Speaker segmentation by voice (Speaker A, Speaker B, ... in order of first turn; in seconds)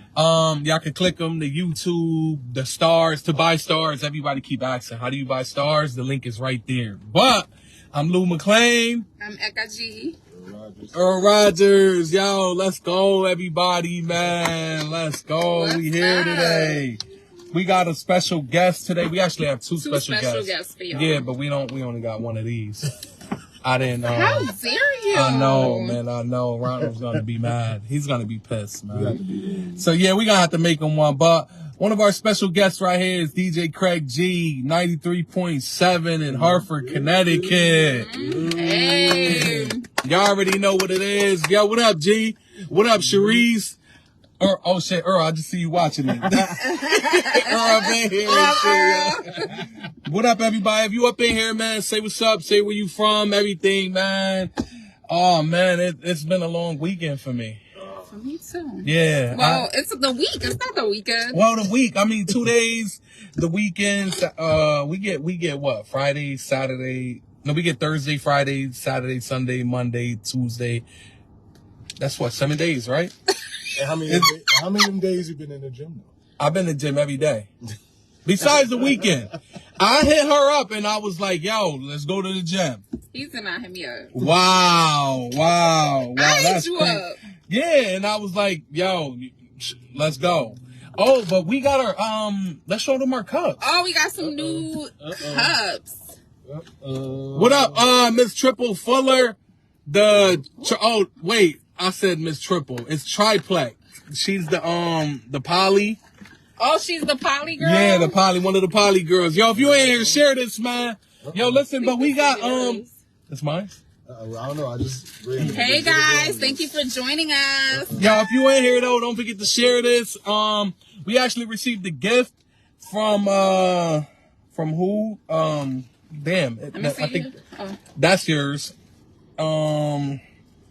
Speaker A: 0.1-9.1, 10.9-17.0, 17.5-22.9, 23.6-24.5, 25.1-29.2, 29.8-38.1, 39.0-43.8, 44.4-54.5, 55.1-57.6, 58.8-59.7, 61.3-70.8, 72.0-73.1, 76.4-77.5, 78.2-82.8, 84.1-93.6, 97.3-106.0, 107.6-113.8, 118.0-127.3, 128.0-128.7, 129.4-130.2
Speaker B: 9.2-10.2, 15.4-16.8, 19.8-21.3, 24.1-26.0, 37.9-39.8, 46.6-49.5, 58.1-61.4, 83.1-84.1, 86.2-87.2, 93.6-96.0, 106.6-108.2, 111.8-112.9, 115.5-118.2, 126.7-127.8
Speaker C: 10.3-11.0, 28.9-29.9, 36.3-39.5, 43.0-43.4, 73.8-76.1, 94.2-95.6, 96.5-97.9, 109.5-110.2, 111.2-111.7, 114.0-116.6, 117.7-118.1